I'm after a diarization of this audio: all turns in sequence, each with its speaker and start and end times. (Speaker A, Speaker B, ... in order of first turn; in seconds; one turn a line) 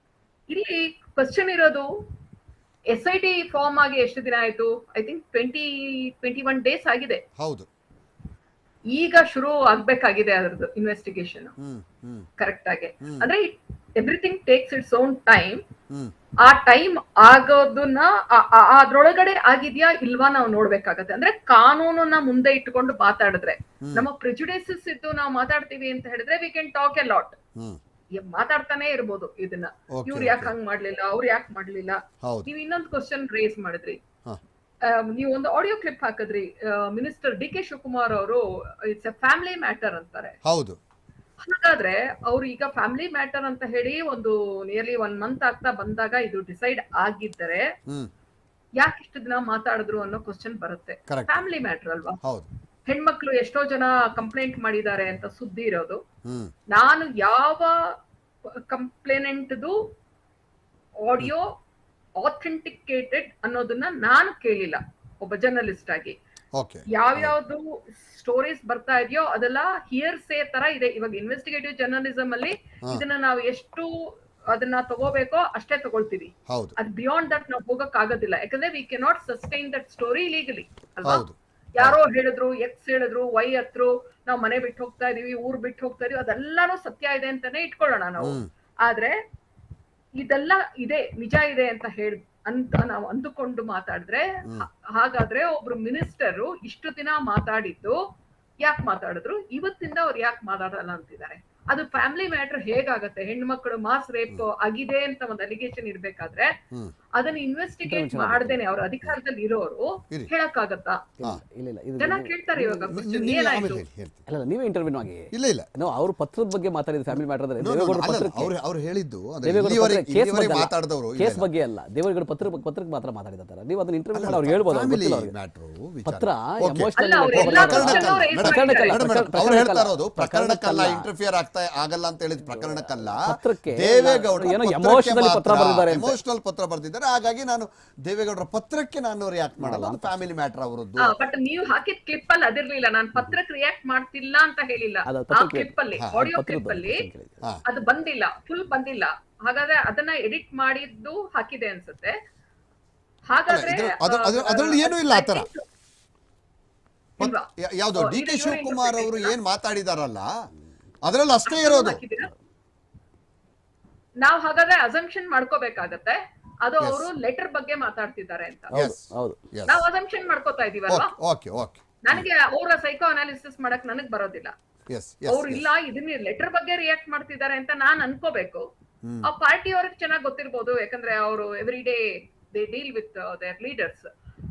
Speaker A: 0.5-1.9
Speaker A: 2.9-7.2
Speaker B: 7.4-7.7
Speaker A: 8.9-11.5
Speaker B: 11.6-12.3
Speaker A: 12.4-15.6
Speaker A: 16.4-27.4
Speaker B: 23.8-24.1
Speaker A: 28.1-34.0
Speaker B: 29.9-30.5
Speaker B: 32.2-32.5
Speaker A: 34.9-40.4
Speaker B: 40.5-40.8
Speaker A: 41.4-47.7
Speaker A: 48.8-52.2
Speaker B: 51.1-51.5
Speaker A: 52.9-56.0
Speaker B: 56.3-56.5
Speaker A: 56.7-58.0
Speaker A: 58.7-59.8
Speaker A: 61.0-61.5
Speaker A: 62.2-66.2
Speaker B: 66.6-67.3
Speaker A: 67.0-73.9
Speaker A: 74.5-89.2
Speaker B: 76.5-76.8
Speaker B: 81.0-82.0
Speaker B: 88.2-88.5
Speaker A: 90.2-98.0
Speaker A: 98.6-106.5
Speaker A: 107.2-111.0
Speaker C: 107.9-108.6
Speaker C: 111.2-112.8
Speaker A: 112.0-113.8
Speaker B: 112.9-114.2
Speaker C: 114.3-118.5
Speaker B: 115.3-115.7
Speaker B: 117.6-121.5
Speaker C: 119.4-125.3
Speaker B: 124.1-133.2
Speaker C: 126.1-131.1
Speaker A: 127.0-129.1
Speaker C: 132.5-136.2
Speaker B: 133.7-141.2
Speaker C: 139.6-140.2
Speaker A: 141.0-147.1
Speaker C: 145.1-147.4
Speaker A: 147.7-152.2
Speaker A: 153.3-155.6
Speaker B: 153.5-155.5
Speaker A: 157.2-159.3
Speaker B: 157.2-160.3
Speaker B: 161.0-162.0
Speaker A: 161.5-162.3
Speaker A: 164.2-168.7
Speaker B: 166.8-167.1
Speaker C: 168.7-169.4
Speaker B: 168.7-169.8
Speaker A: 169.7-171.1
Speaker B: 170.9-172.3
Speaker A: 172.0-174.5
Speaker B: 174.9-175.7
Speaker A: 175.3-178.7
Speaker A: 179.3-182.0
Speaker A: 182.5-184.1